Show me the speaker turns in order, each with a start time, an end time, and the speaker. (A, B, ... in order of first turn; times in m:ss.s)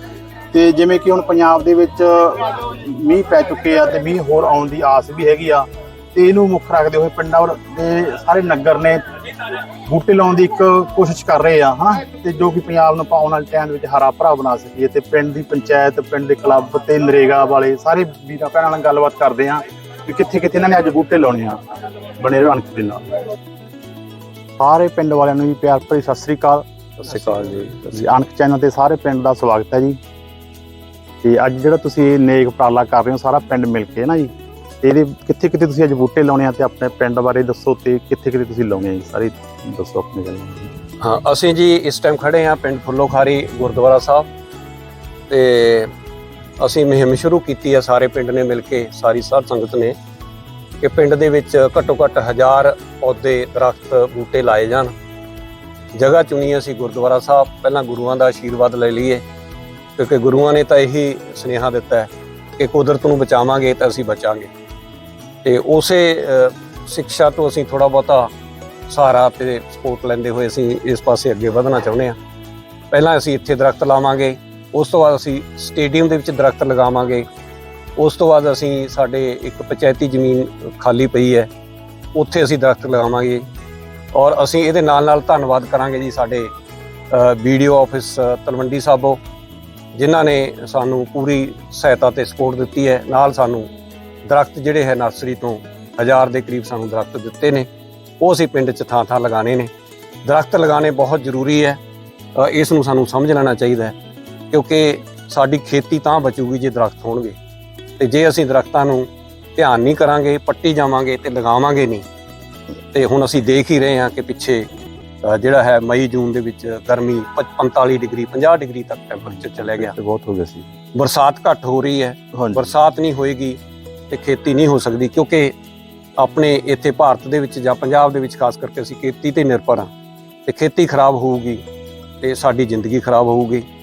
0:00.5-0:09.0 A
0:09.9-0:21.6 A
0:22.2-0:23.0 A
0:24.6-0:30.0 A
0:27.0-0:28.2 B
0:31.2-0:34.3 A
0:34.8-0:40.7 A
0:41.0-0:44.3 B
0:45.3-0:45.9 B
0:46.6-0:50.0 B
0:50.8-0:54.9 B
0:56.0-0:59.2 B
1:00.0-1:04.5 B
1:05.4-1:08.3 B
1:08.9-1:12.2 B
1:12.9-1:17.2 B
1:18.0-1:21.5 B
1:22.2-1:23.5 B
1:24.1-1:26.5 B
1:27.1-1:29.2 B
1:30.0-1:33.7 B
1:34.3-1:37.7 B
1:38.2-1:39.7 B
1:40.3-1:41.8 B
1:42.4-1:44.0 B
1:44.5-1:47.4 B
1:48.0-1:52.0 B
1:52.9-1:54.6 B
1:55.2-1:59.9 B
1:59.2-2:00.7 A
2:01.0-2:03.6 B
2:02.4-2:02.7 A
2:04.1-2:05.5 B
2:06.2-2:09.9 B
2:10.5-2:11.6 B
2:12.2-2:13.6 B